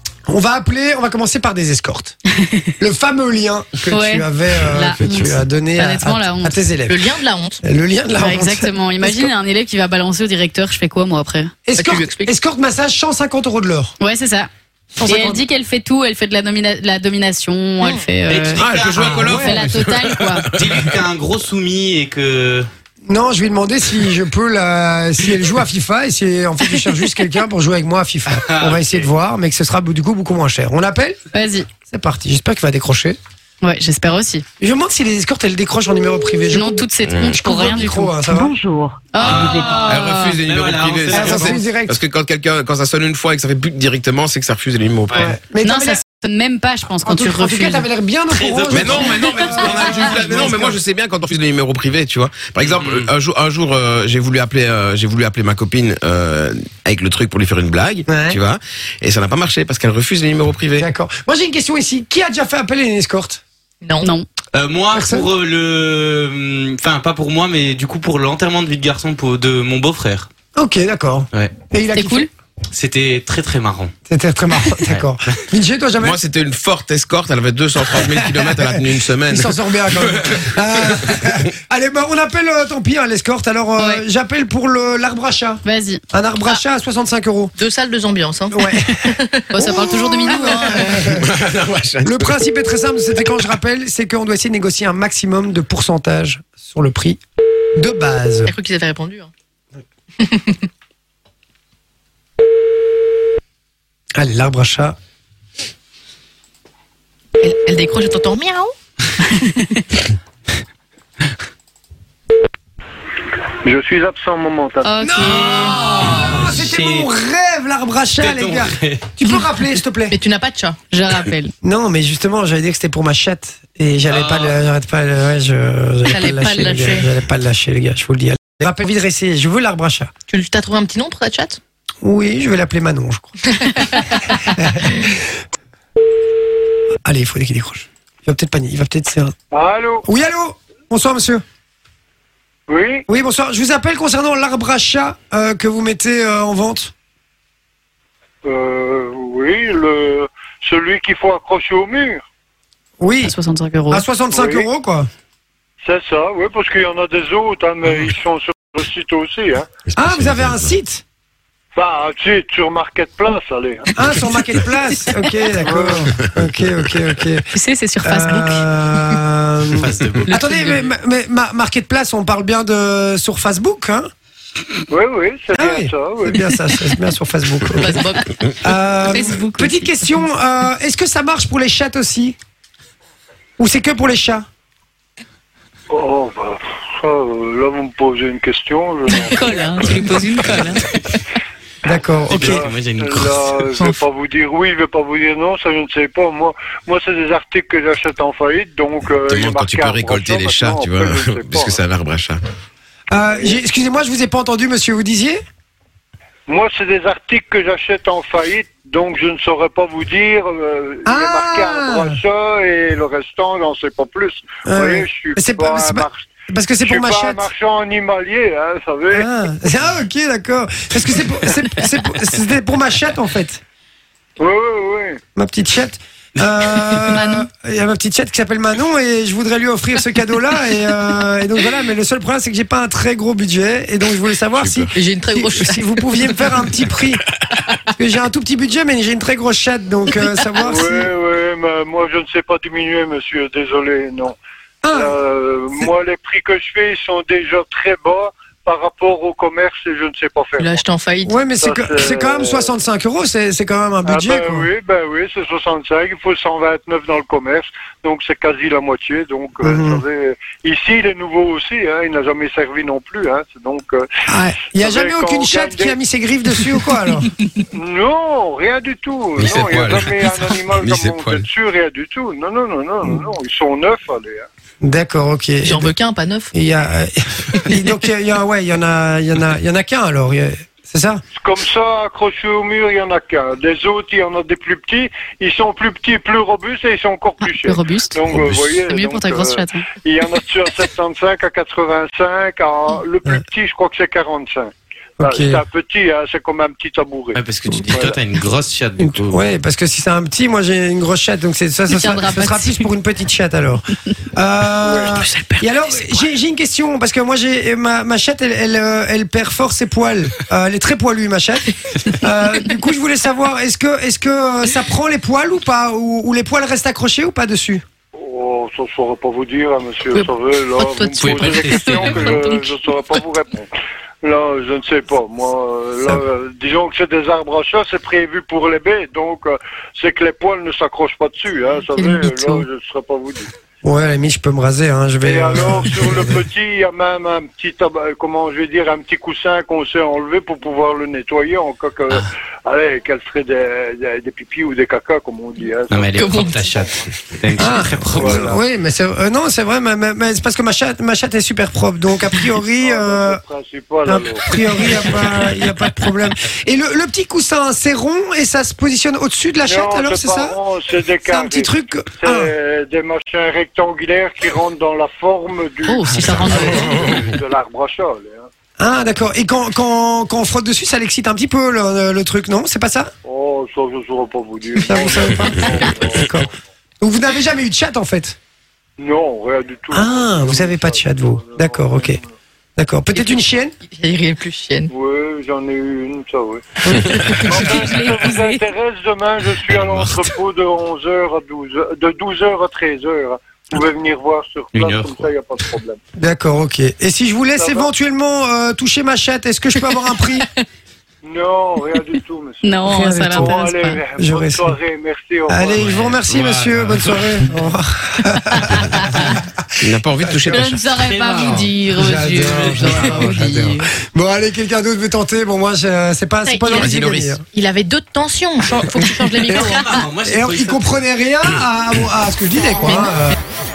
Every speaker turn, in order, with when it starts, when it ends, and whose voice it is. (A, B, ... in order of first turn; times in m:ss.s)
0:00.3-0:02.2 A
0:02.4-0:02.7 B
0:02.8-0:07.1 A
0:03.9-0:06.7 B
0:06.9-0:07.6 C
0:07.6-0:09.3 A
0:08.1-0:11.6 B
0:11.7-0:13.9 A
0:11.7-0:12.3 C
0:14.0-0:14.5 B
0:15.0-0:15.4 C
0:15.0-0:20.5 B
0:17.8-0:18.1 C
0:18.3-0:19.7 D
0:18.6-0:21.0 E
0:19.2-0:19.6 A
0:20.5-0:22.7 D
0:23.0-0:31.2 A
0:28.3-0:29.0 D
0:31.3-0:31.7 B
0:31.9-0:33.2 A
0:33.6-0:34.4 B
0:34.6-0:38.6 A
0:36.5-0:40.2 B
0:37.0-0:37.4 E
0:39.2-0:41.6 D
0:39.2-0:45.4 E
0:41.1-0:42.0 A
0:45.1-0:46.0 A
0:45.5-0:47.9 B
0:47.0-0:50.8 A
0:48.3-0:50.6 D
0:48.7-1:00.9 E
0:52.7-0:53.1 D
0:58.1-0:58.4 A
1:00.8-1:03.4 A
1:03.8-1:04.1 C
1:04.5-1:10.3 D
1:04.9-1:05.3 A
1:10.5-1:12.3 A
1:11.9-1:12.3 B
1:12.7-1:13.9 D
1:14.1-1:16.2 A
1:14.8-1:15.1 D
1:16.0-1:20.4 E
1:17.9-1:27.5 A
1:21.1-1:21.4 E
1:23.8-1:24.0 B
1:25.6-1:26.0 B
1:27.5-1:31.0 C
1:28.5-1:31.3 A
1:29.6-1:30.8 B
1:30.9-1:32.5 E
1:32.0-1:37.2 A
1:37.8-1:38.5 A
1:38.4-1:39.3 C
1:40.2-1:40.6 C
1:44.2-1:45.0 A
1:47.4-1:49.3 C
1:49.4-1:49.8 B
1:53.6-1:55.2 F
1:54.8-1:55.8 B
1:55.0-2:00.2 A
1:55.2-1:57.1 D
1:58.2-1:59.1 D
2:00.1-2:00.8 C
2:00.9-2:01.5 B
2:01.6-2:10.1 A
2:04.1-2:04.5 D
2:06.0-2:07.1 C
2:10.3-2:11.6 C
2:12.0-2:15.4 A
2:13.7-2:14.1 C
2:17.0-2:19.3 A
2:19.5-2:20.0 F
2:20.0-2:21.4 A
2:22.7-2:23.0 F
2:23.1-2:26.9 A
2:28.4-2:32.2 F
2:33.0-2:33.3 A
2:33.2-2:34.1 B
2:33.9-2:35.1 A
2:34.3-2:34.7 F
2:35.8-2:39.6 F
2:39.9-2:40.8 E
2:40.0-2:41.0 A
2:41.8-2:43.9 F
2:44.0-2:47.5 A
2:45.6-2:46.1 F
2:47.5-2:48.6 B
2:48.0-2:54.1 A
2:49.7-2:50.8 D
2:54.9-2:56.5 F
2:55.5-2:58.0 A
2:57.7-2:58.2 C
2:58.5-3:02.4 A
2:59.0-3:00.0 B
3:03.6-3:04.4 A
3:05.9-3:09.9 F
3:09.1-3:10.8 B
3:11.8-3:12.7 A
3:12.3-3:21.8 F
3:12.3-3:14.0 D
3:19.1-3:22.4 E
3:23.1-3:25.4 A
3:23.3-3:23.6 F
3:26.5-3:36.3 F
3:31.0-3:32.2 A
3:34.6-3:37.5 A
3:36.8-3:39.4 F
3:39.1-3:43.6 A
3:44.4-3:45.2 F
3:45.3-3:57.2 A
3:47.1-3:47.4 B
3:54.5-3:54.9 E
3:54.9-3:56.6 C
3:57.9-4:01.1 A
4:00.6-4:04.4 F
4:04.8-4:05.1 A
4:04.9-4:10.9 F
4:10.6-4:11.4 C
4:11.2-4:14.7 A
4:11.5-4:12.7 F
4:14.0-4:24.0 F
4:19.6-4:20.0 A
4:24.3-4:27.3 A
4:24.8-4:26.0 F
4:27.7-4:34.5 F
4:29.4-4:31.5 E
4:34.8-4:35.9 A
4:35.6-4:36.5 C
4:36.5-4:41.2 A
4:41.4-4:58.2 F
4:47.4-4:49.9 B
4:55.2-4:55.6 A
4:57.3-4:59.4 D
4:59.0-5:17.8 A
5:01.9-5:02.9 C
5:04.8-5:05.1 F
5:05.1-5:06.3 C
5:18.1-5:23.7 F
5:20.1-5:22.6 C
5:21.2-5:22.5 D
5:24.2-5:33.5 F
5:31.9-5:32.6 C
5:33.8-5:36.4 A
5:35.2-5:47.0 F
5:45.9-5:48.6 D
5:46.2-5:46.6 C
5:47.6-5:53.4 A
5:48.1-5:48.6 F
5:52.8-5:55.2 F
5:54.0-6:00.6 A
5:59.6-6:08.5 F
6:01.2-6:02.5 A
6:05.8-6:06.7 B
6:08.8-6:13.1 A
6:13.2-6:16.5 F
6:14.9-6:16.5 A
6:17.0-6:18.4 A
6:19.0-6:22.3 F
6:19.9-6:22.2 A
6:22.8-6:23.7 A
6:23.1-6:24.9 C
6:24.9-6:26.8 F
6:26.8-6:27.3 A
6:26.9-6:28.6 C
6:27.4-6:36.0 F
6:29.7-6:30.2 D
6:34.7-6:35.3 D
6:36.2-6:40.5 A
6:37.5-6:37.9 F
6:41.2-6:46.0 F
6:42.6-6:44.0 B
6:42.9-6:43.5 A
6:44.2-6:44.8 A
6:45.5-6:49.6 A
6:45.8-6:47.4 D
6:49.0-6:49.3 B
6:49.8-6:50.8 E
6:50.2-6:50.7 A
6:50.5-6:53.9 B
6:51.0-6:53.3 D
6:52.0-6:57.4 A
6:56.4-7:00.0 C
6:56.7-6:57.4 E
6:58.7-7:03.4 A
6:59.5-7:01.0 D
7:02.8-7:03.2 C